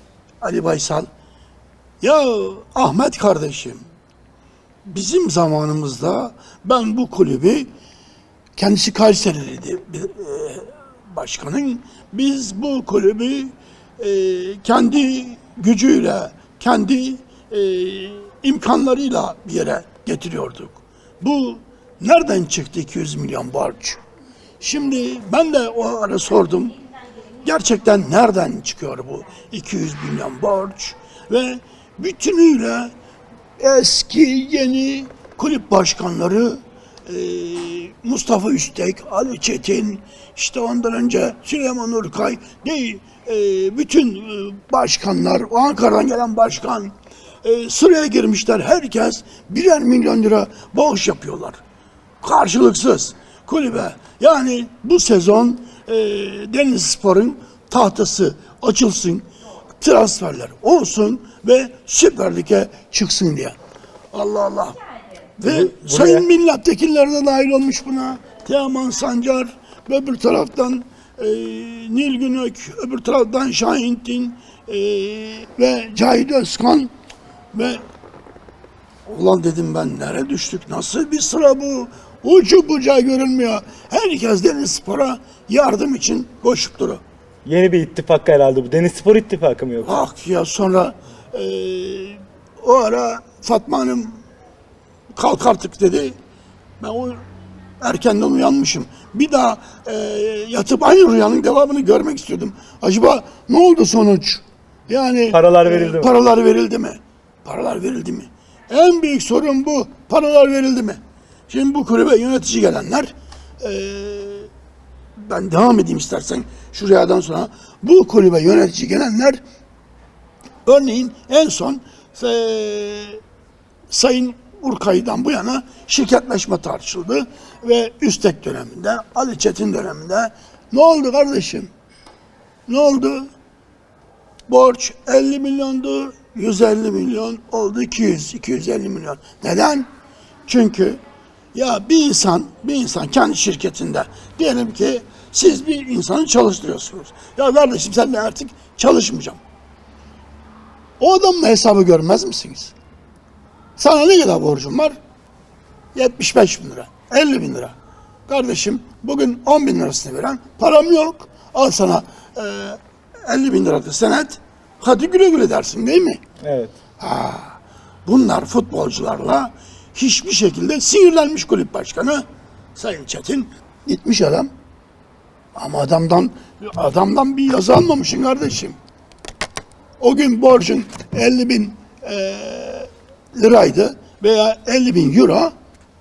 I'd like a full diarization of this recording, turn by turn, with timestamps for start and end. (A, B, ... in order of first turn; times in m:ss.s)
0:00.4-0:01.1 A
0:02.0-0:03.8 A
0:04.8-0:07.7 A
0:08.6-0:24.0 A
0:24.6-0:26.8 A
0:27.4-0:32.9 A
0:33.6-0:51.6 A
0:52.2-0:59.3 A
0:59.8-1:03.5 A
1:04.1-1:04.8 A
1:05.4-1:16.9 A
1:05.4-1:06.3 B
1:17.5-1:17.8 A
1:19.1-1:27.0 A
1:27.4-1:30.0 B
1:29.8-1:34.2 A
1:35.2-1:36.1 A
1:36.8-1:37.2 A
1:37.8-1:54.5 A
1:45.3-1:46.1 B
1:55.2-1:59.4 A
2:00.6-2:03.2 A
2:03.9-2:11.7 A
2:12.7-2:13.2 A
2:14.5-2:19.9 A
2:20.5-2:21.0 A
2:21.5-2:29.4 A
2:31.0-2:32.7 A
2:33.8-2:35.0 A
2:35.9-2:37.7 A
2:38.3-2:46.2 A
2:46.4-2:46.7 B
2:47.0-2:52.2 A
2:52.7-2:54.5 A
2:55.5-2:58.8 A
3:00.0-3:05.5 A